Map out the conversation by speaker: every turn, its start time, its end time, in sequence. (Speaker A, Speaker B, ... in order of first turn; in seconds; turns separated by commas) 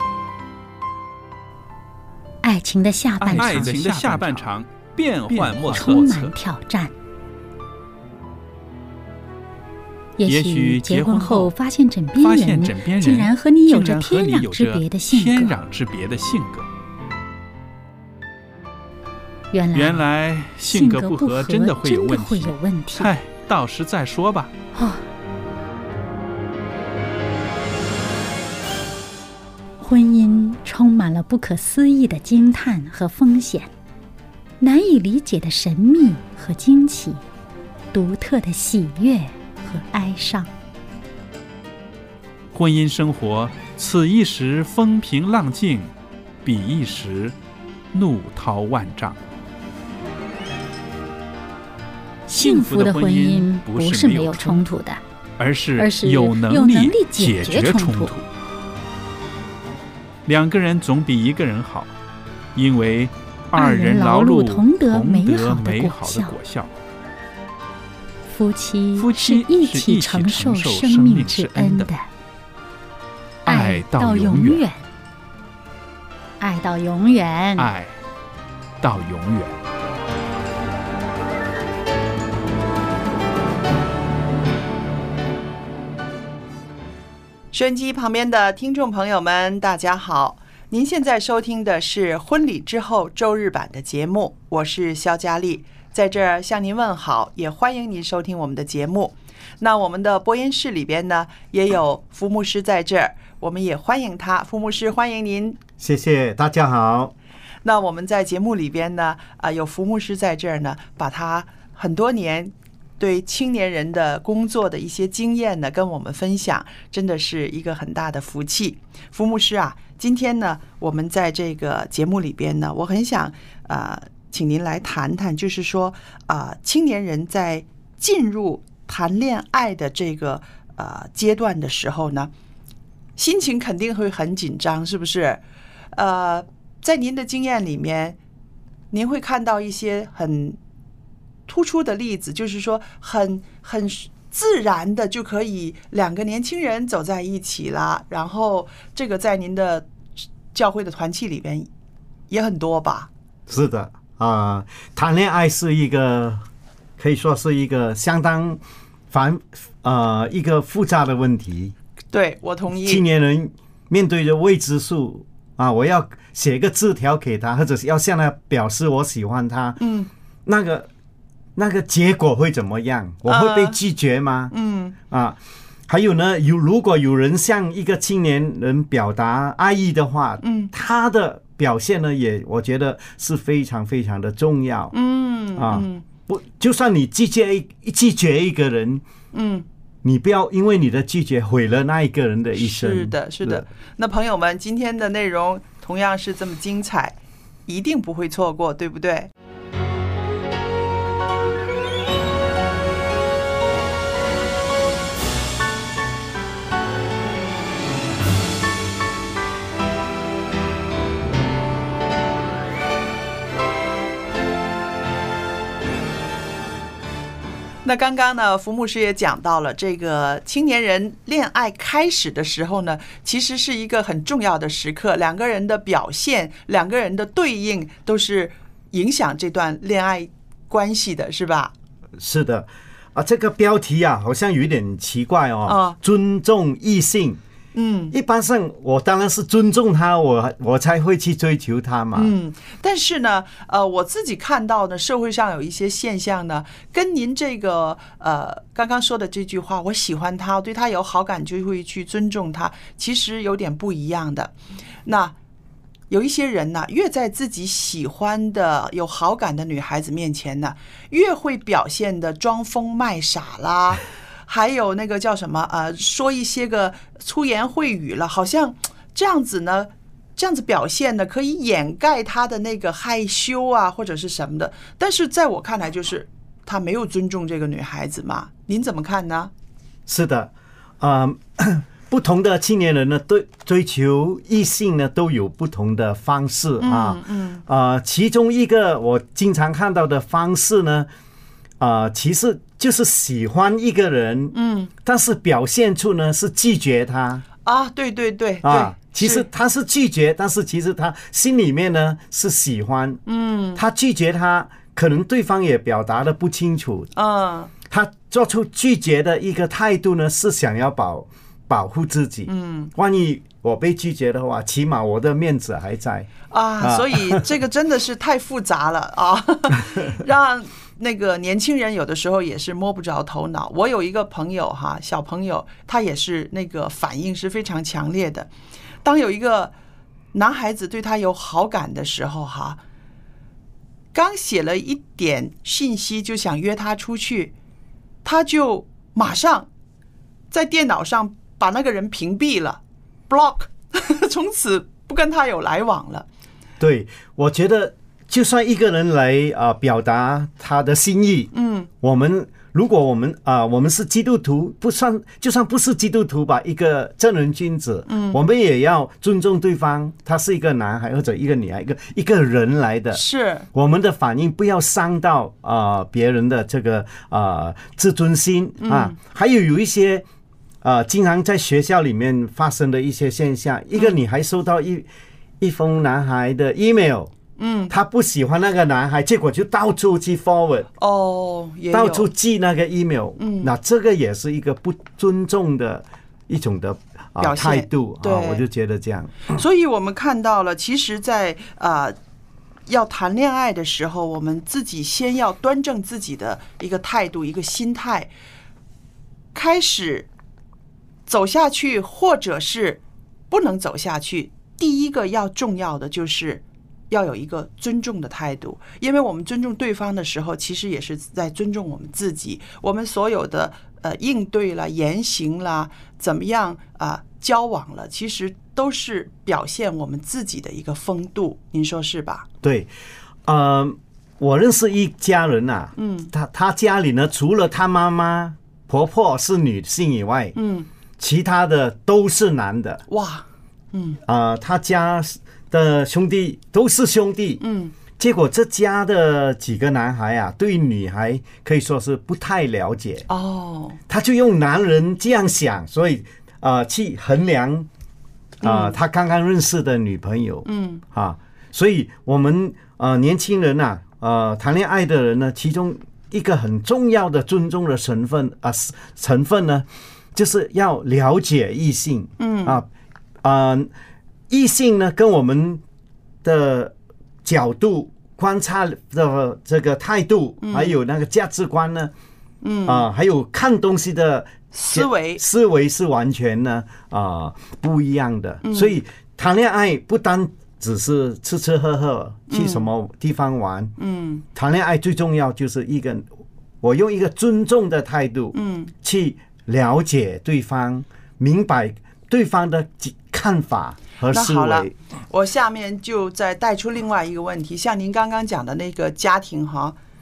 Speaker A: 2.4-4.5, Speaker B: 3.2-6.3, Speaker A: 5.3-6.9, Speaker A: 10.2-15.6, Speaker B: 10.2-11.5, Speaker B: 12.2-16.7, Speaker A: 19.5-20.1, Speaker B: 19.7-24.5, Speaker A: 20.7-23.1, Speaker A: 24.8-25.0, Speaker A: 29.8-33.7, Speaker A: 34.6-37.2, Speaker A: 37.9-40.5, Speaker B: 42.5-45.9, Speaker B: 46.4-47.3, Speaker B: 47.9-49.2, Speaker A: 52.3-55.0, Speaker B: 52.3-54.6, Speaker B: 55.4-58.3, Speaker A: 55.8-58.1, Speaker B: 60.3-61.9, Speaker B: 62.5-66.7, Speaker A: 63.5-66.3, Speaker A: 68.3-72.0, Speaker B: 69.0-71.9, Speaker B: 73.5-74.7, Speaker A: 73.5-74.8, Speaker A: 76.4-77.7, Speaker B: 77.6-78.0, Speaker B: 78.8-79.6, Speaker C: 87.5-105.6, Speaker D: 105.8-107.1, Speaker C: 107.6-132.3, Speaker C: 133.2-135.4, Speaker C: 135.9-138.2, Speaker C: 138.9-140.6, Speaker C: 141.5-151.7, Speaker C: 152.3-153.1, Speaker D: 153.5-156.4, Speaker D: 157.0-158.6, Speaker D: 159.1-161.7, Speaker C: 162.1-163.1, Speaker D: 162.9-169.8, Speaker C: 169.8-170.1, Speaker D: 170.5-170.9, Speaker D: 171.6-174.5, Speaker C: 173.3-173.8, Speaker C: 174.5-175.0, Speaker D: 175.1-184.9, Speaker C: 180.4-180.7, Speaker C: 184.9-186.1, Speaker D: 185.6-189.0, Speaker C: 189.3-189.7, Speaker D: 190.0-193.7, Speaker C: 192.6-199.3, Speaker C: 217.8-231.7, Speaker D: 232.2-237.4, Speaker C: 235.7-236.0, Speaker C: 237.7-238.2, Speaker D: 238.1-242.3, Speaker C: 242.1-254.5, Speaker C: 255.1-255.3, Speaker C: 256.1-279.5, Speaker D: 280.1-291.1, Speaker C: 286.8-287.6, Speaker D: 291.8-297.4, Speaker C: 294.5-294.9, Speaker C: 297.6-299.5, Speaker D: 298.6-303.2, Speaker C: 303.3-303.8, Speaker D: 303.8-307.1, Speaker C: 307.1-307.7, Speaker D: 307.9-317.5, Speaker C: 312.5-312.9, Speaker C: 316.5-328.5, Speaker C: 329.0-329.7, Speaker C: 330.3-332.8, Speaker C: 334.1-337.5, Speaker C: 338.2-339.7, Speaker C: 340.5-346.3, Speaker D: 346.8-363.2, Speaker C: 351.5-351.9, Speaker C: 358.1-358.4, Speaker C: 363.1-363.7, Speaker D: 363.7-370.3, Speaker C: 368.8-369.2, Speaker D: 370.8-375.1, Speaker D: 375.6-377.3, Speaker C: 377.6-377.9, Speaker D: 377.9-380.9, Speaker C: 381.0-382.3, Speaker D: 381.9-389.6, Speaker C: 383.4-383.7, Speaker C: 387.4-388.6, Speaker C: 389.5-392.2, Speaker C: 392.9-398.3, Speaker C: 399.5-400.3, Speaker C: 401.3-422.5, Speaker D: 422.6-422.9, Speaker D: 423.4-430.6, Speaker C: 426.0-426.3, Speaker C: 430.6-430.9, Speaker D: 431.2-433.0, Speaker C: 433.1-434.2, Speaker D: 434.3-437.6, Speaker C: 437.6-437.9, Speaker D: 438.1-443.3, Speaker C: 443.3-444.0, Speaker D: 444.1-447.9, Speaker C: 448.6-449.0, Speaker D: 448.6-462.9, Speaker C: 450.6-451.0, Speaker C: 462.4-462.8, Speaker D: 463.4-463.9, Speaker D: 464.5-465.8, Speaker D: 466.4-466.9, Speaker D: 467.4-472.1, Speaker C: 470.6-471.0, Speaker C: 472.6-473.1, Speaker D: 472.9-483.9, Speaker C: 474.7-475.4, Speaker C: 478.6-479.0, Speaker C: 482.5-482.9, Speaker C: 484.0-484.4, Speaker D: 484.6-486.3, Speaker D: 486.8-494.9, Speaker C: 488.5-488.9, Speaker C: 494.3-500.0